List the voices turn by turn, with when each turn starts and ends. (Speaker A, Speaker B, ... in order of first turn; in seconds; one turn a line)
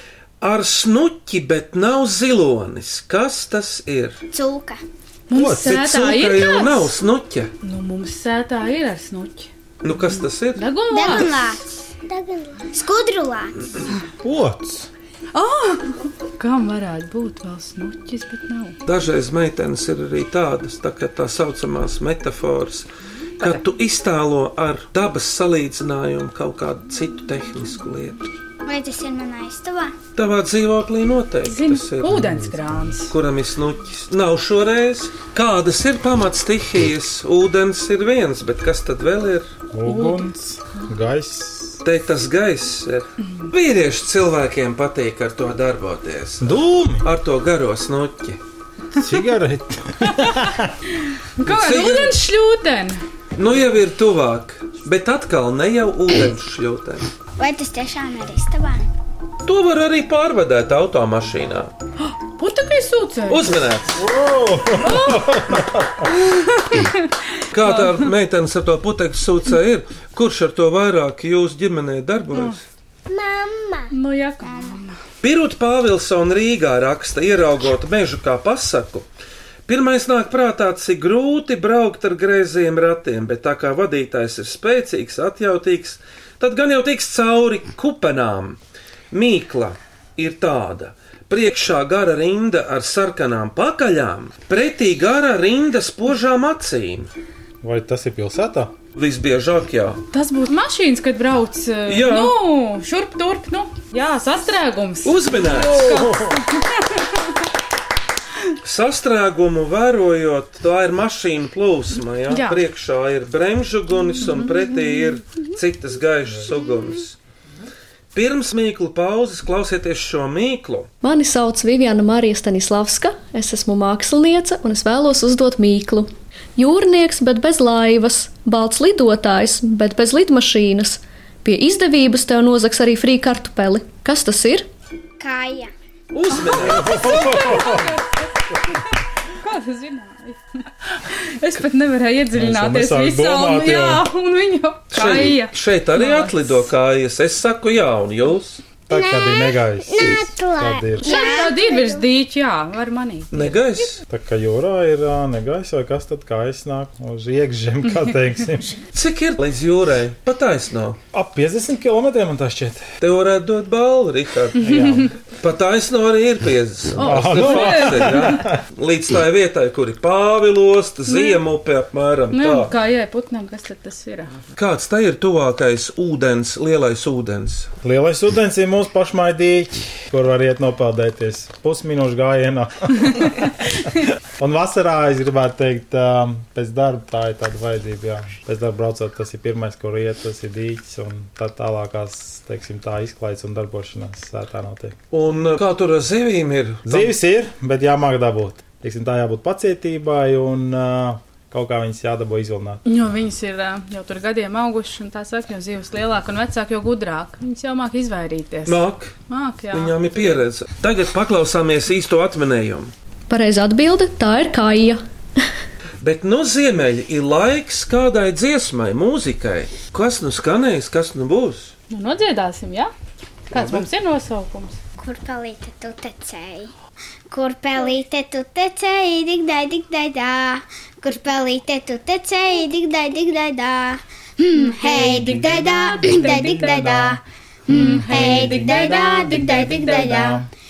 Speaker A: 0.4-4.2
Speaker B: 4.3-4.8
Speaker C: 5.3-6.9
Speaker D: 5.3-5.7
Speaker A: 5.5-7.5
Speaker C: 7.6-9.5
Speaker A: 9.8-10.6
Speaker C: 10.6-11.3
Speaker B: 10.9-11.6
Speaker E: 12.1-12.8
Speaker B: 12.7-13.7
Speaker D: 14.2-14.9
Speaker C: 15.3-18.8
Speaker A: 18.9-22.9
Speaker A: 23.4-28.3
Speaker B: 28.6-30.0
Speaker A: 30.1-32.4
Speaker C: 31.5-33.1
Speaker D: 32.2-32.9
Speaker A: 33.1-39.5
Speaker D: 39.7-41.8
Speaker C: 39.9-40.8
Speaker A: 41.8-48.4
Speaker D: 46.4-47.0
Speaker D: 49.0-50.7
Speaker C: 50.2-50.5
Speaker C: 51.0-53.0
Speaker A: 51.5-52.2
Speaker A: 53.4-57.1
Speaker B: 57.4-58.8
Speaker A: 59.5-61.7
Speaker C: 62.0-63.6
Speaker A: 63.3-64.0
Speaker D: 64.0-66.1
Speaker C: 64.8-65.4
Speaker C: 66.1-68.0
Speaker A: 67.5-72.6
Speaker E: 73.1-73.9
Speaker C: 73.9-75.0
Speaker B: 74.4-74.8
Speaker A: 75.2-79.1
Speaker A: 79.7-88.6
Speaker A: 89.1-97.1
Speaker D: 97.6-98.7
Speaker A: 99.0-100.0
Speaker C: 100.1-107.2
Speaker A: 101.9-102.3
Speaker A: 105.0-106.1
Speaker D: 105.8-106.4
Speaker A: 108.6-117.2
Speaker C: 112.3-112.6
Speaker A: 118.1-120.9
Speaker F: 121.0-134.7
Speaker B: 135.2-135.7
Speaker A: 136.1-137.1
Speaker D: 136.6-137.9
Speaker C: 136.7-146.6
Speaker D: 142.3-144.1
Speaker A: 144.9-148.6
Speaker D: 148.9-151.2
Speaker E: 148.9-152.0
Speaker C: 151.0-153.8
Speaker B: 151.0-151.6
Speaker A: 153.3-154.0
Speaker D: 154.1-158.8
Speaker A: 158.9-161.0
Speaker D: 161.1-162.9
Speaker A: 163.0-172.7
Speaker D: 164.6-165.1
Speaker C: 167.0-168.4
Speaker D: 167.0-168.6
Speaker C: 171.1-171.4
Speaker C: 172.3-174.3
Speaker A: 174.6-177.7
Speaker D: 177.8-183.6
Speaker D: 184.4-195.0
Speaker A: 195.1-197.1
Speaker D: 196.9-202.8
Speaker C: 202.9-210.4
Speaker A: 208.7-209.2
Speaker A: 209.7-212.9
Speaker F: 213.3-215.0
Speaker A: 216.0-221.7
Speaker C: 221.9-222.9
Speaker C: 223.5-224.8
Speaker B: 225.0-226.7
Speaker B: 227.3-240.5
Speaker D: 234.9-237.2
Speaker D: 237.7-240.4